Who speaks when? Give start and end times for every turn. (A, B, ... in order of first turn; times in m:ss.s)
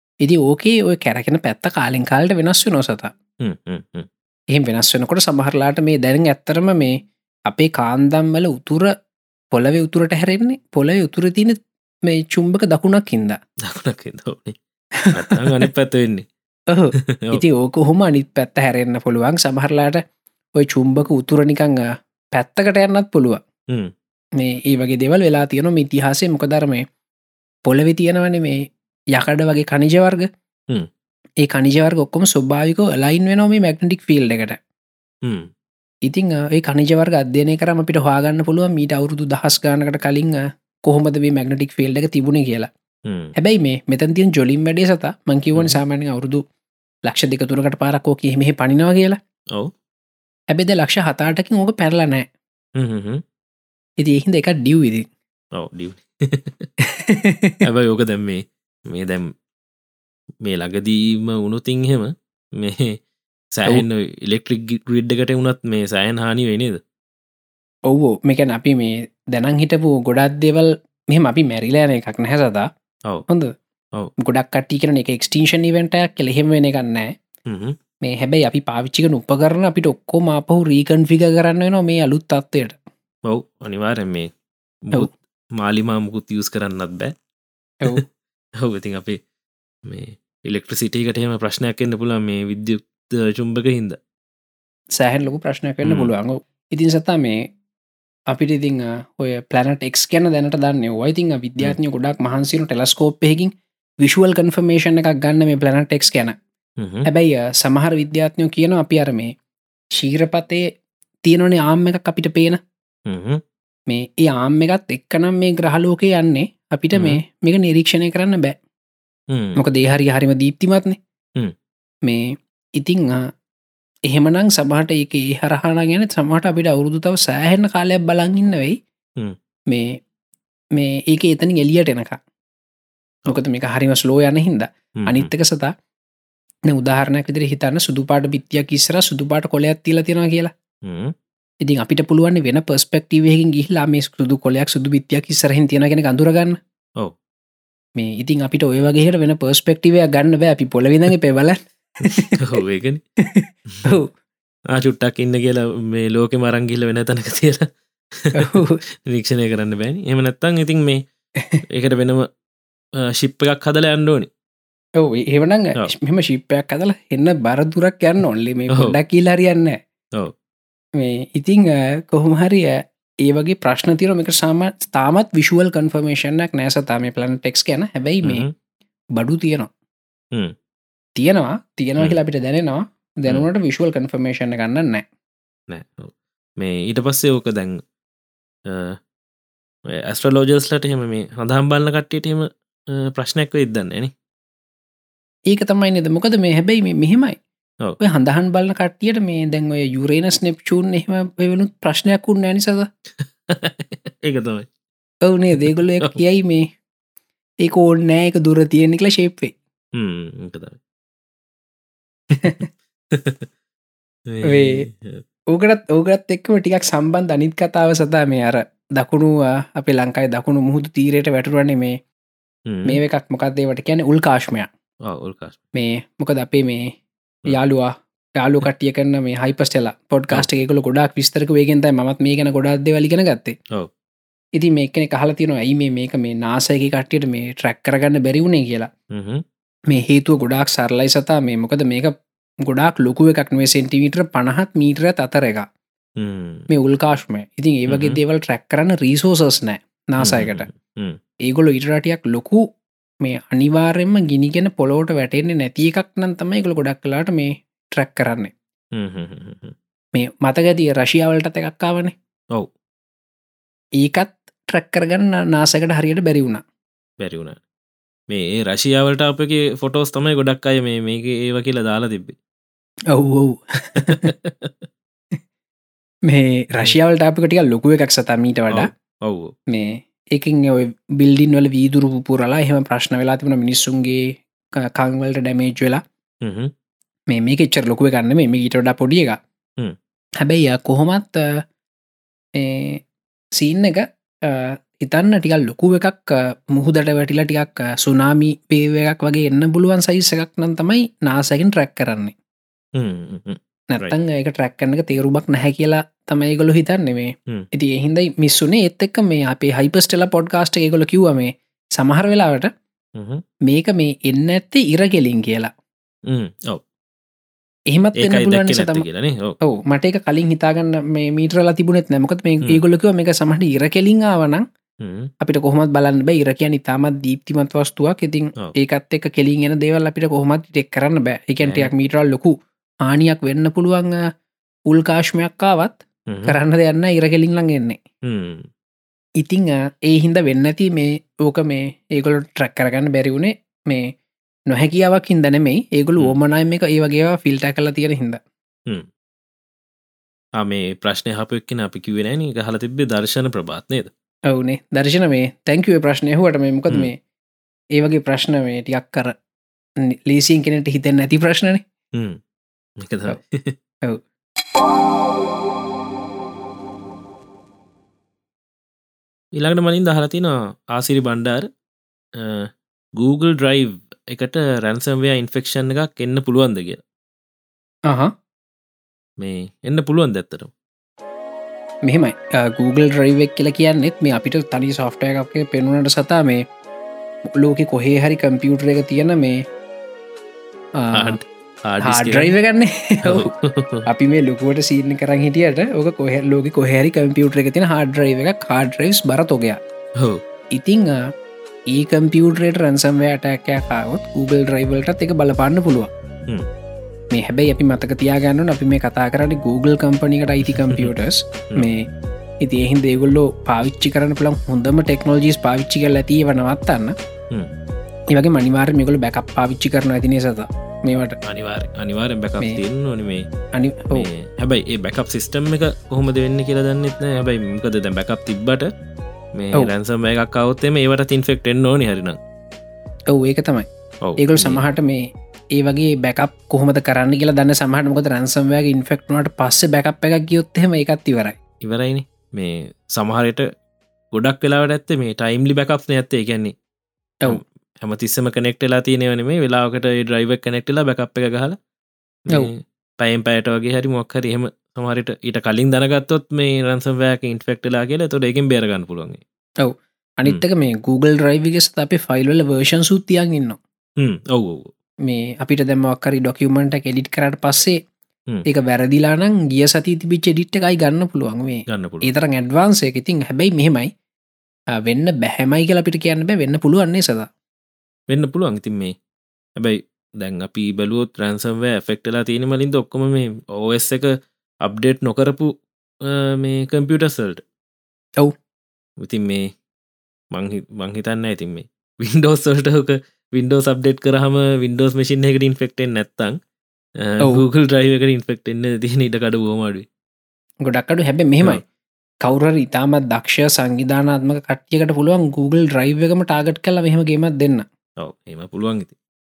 0:00.2-0:03.1 A
0:03.4-0:04.1 B
0:04.5-0:08.9 A
0:09.5-0:13.4 A
0:13.6-0:14.6 B
0:15.0-0:15.7 A
0:15.1-0:16.3 B
0:16.7-0:20.0 A
0:17.1-0:17.4 B
0:20.6-0:23.4 A
0:24.4-0:26.8 A
0:27.7-0:28.6 A
0:29.1-0:30.3 A
0:31.4-0:34.6 A
0:35.2-0:35.5 B
0:36.0-0:42.7 A
0:43.0-0:43.3 B
0:43.4-0:46.4 A
0:47.1-0:49.2 A
0:50.5-0:52.3 A
0:52.8-0:53.2 B
0:54.0-0:55.0 A
0:55.5-0:56.7 B
0:56.8-0:57.6 A
0:57.6-0:59.3 B
1:00.4-1:03.0 B
1:03.5-1:06.8 B
1:07.9-1:12.7 A
1:14.2-1:17.1 A
1:17.5-1:17.8 B
1:18.0-1:22.8 A
1:23.2-1:24.3 B
1:24.9-1:27.1 B
1:28.6-1:29.2 B
1:29.8-1:34.0 B
1:35.0-1:37.4 A
1:35.8-1:36.1 B
1:38.3-1:46.3 A
1:46.8-1:47.1 B
1:47.0-1:49.3 A
1:50.0-1:50.6 A
1:51.2-1:52.6 A
1:53.0-1:53.4 B
1:53.9-1:58.6 A
1:56.9-1:57.2 B
1:59.3-1:59.6 B
1:59.6-2:01.0 A
2:02.0-2:03.3 A
2:04.1-2:08.8 A
2:09.7-2:10.0 A
2:10.7-2:12.2 A
2:13.3-2:15.7 A
2:15.0-2:15.3 B
2:16.7-2:20.5 A
2:20.8-2:21.1 B
2:21.6-2:26.6 A
2:28.0-2:32.4 A
2:32.0-2:33.0 B
2:33.2-2:34.1 A
2:33.7-2:34.0 B
2:34.7-2:41.0 B
2:38.3-2:38.8 A
2:41.7-2:42.3 B
2:43.0-2:44.3 B
2:45.0-2:49.8 A
2:51.0-2:58.4 A
2:58.2-2:58.5 B
2:59.2-2:59.7 A
3:01.2-3:05.0 A
3:05.7-3:07.8 B
3:08.7-3:09.0 B
3:09.9-3:14.1 B
3:15.5-3:17.4 A
3:18.0-3:22.9 A
3:23.2-3:24.7 B
3:25.2-3:26.7 A
3:25.6-3:26.2 B
3:27.6-3:29.5 A
3:29.9-3:30.8 B
3:32.3-3:32.6 B
3:32.4-3:32.7 A
3:33.1-3:33.5 B
3:34.3-3:35.2 B
3:34.4-3:34.9 A
3:35.5-3:42.0 A
3:42.7-3:43.0 B
3:42.8-3:44.7 A
3:45.0-3:45.6 B
3:45.7-3:46.9 A
3:47.5-3:53.6 A
3:54.6-3:58.9 A
3:59.1-3:59.4 B
3:59.9-4:05.7 A
4:06.2-4:06.7 B
4:06.7-4:10.7 A
4:07.9-4:08.2 B
4:10.2-4:11.2 B
4:11.4-4:12.6 A
4:13.2-4:18.5 A
4:18.9-4:19.7 B
4:20.2-4:22.1 A
4:24.0-4:26.6 A
4:27.2-4:27.6 B
4:28.3-4:32.4 B
4:33.1-4:34.3 A
4:34.0-4:34.8 B
4:36.3-4:38.9 A
4:38.7-4:39.5 B
4:39.7-4:46.0 A
4:46.4-4:46.7 B
4:47.3-4:49.4 A
4:50.4-4:51.6 A
4:52.6-4:53.0 A
4:53.6-5:02.3 A
5:03.0-5:04.1 B
5:03.9-5:12.7 A
5:13.2-5:13.4 B
5:13.7-5:15.7 A
5:16.3-5:16.8 B
5:17.9-5:19.0 A
5:18.2-5:19.6 B
5:19.6-5:24.6 A
5:25.0-5:25.3 B
5:25.4-5:34.2 A
5:31.6-5:31.9 B
5:34.9-5:38.0 A
5:36.3-5:36.6 B
5:38.2-5:38.7 B
5:39.4-5:44.1 A
5:44.7-5:48.4 A
5:50.6-5:54.1 B
5:54.5-5:57.2 A
5:58.0-5:59.3 A
6:00.0-6:01.8 A
6:02.1-6:02.4 B
6:03.0-6:03.8 B
6:09.5-6:11.7 B
6:12.4-6:17.0 B
6:19.4-6:20.7 B
6:22.0-6:26.6 A
6:27.5-6:29.6 A
6:31.0-6:31.4 A
6:31.1-6:32.6 B
6:32.0-6:33.5 A
6:33.2-6:34.1 B
6:34.0-6:39.8 A
6:40.7-6:41.2 A
6:41.9-6:46.1 A
6:47.3-6:52.1 A
6:50.6-6:51.1 B
6:52.6-6:57.1 A
6:58.3-7:01.4 A
7:01.4-7:03.5 B
7:03.7-7:04.3 A
7:04.1-7:08.9 B
7:09.5-7:12.4 B
7:13.3-7:13.9 A
7:14.2-7:14.8 B
7:14.4-7:21.6 A
7:21.8-7:23.7 B
7:24.3-7:26.7 B
7:27.5-7:31.8 B
7:32.5-7:39.4 B
7:39.8-7:43.8 A
7:44.2-7:44.9 B
7:45.2-7:48.0 A
7:48.6-7:54.1 A
7:51.9-7:52.3 B
7:55.0-7:57.5 A
7:58.3-7:59.2 B
7:59.8-8:07.6 B
8:09.2-8:09.7 B
8:10.5-8:16.6 B
8:17.2-8:20.1 B
8:20.8-8:21.8 A
8:22.4-8:27.8 A
8:28.2-8:29.1 B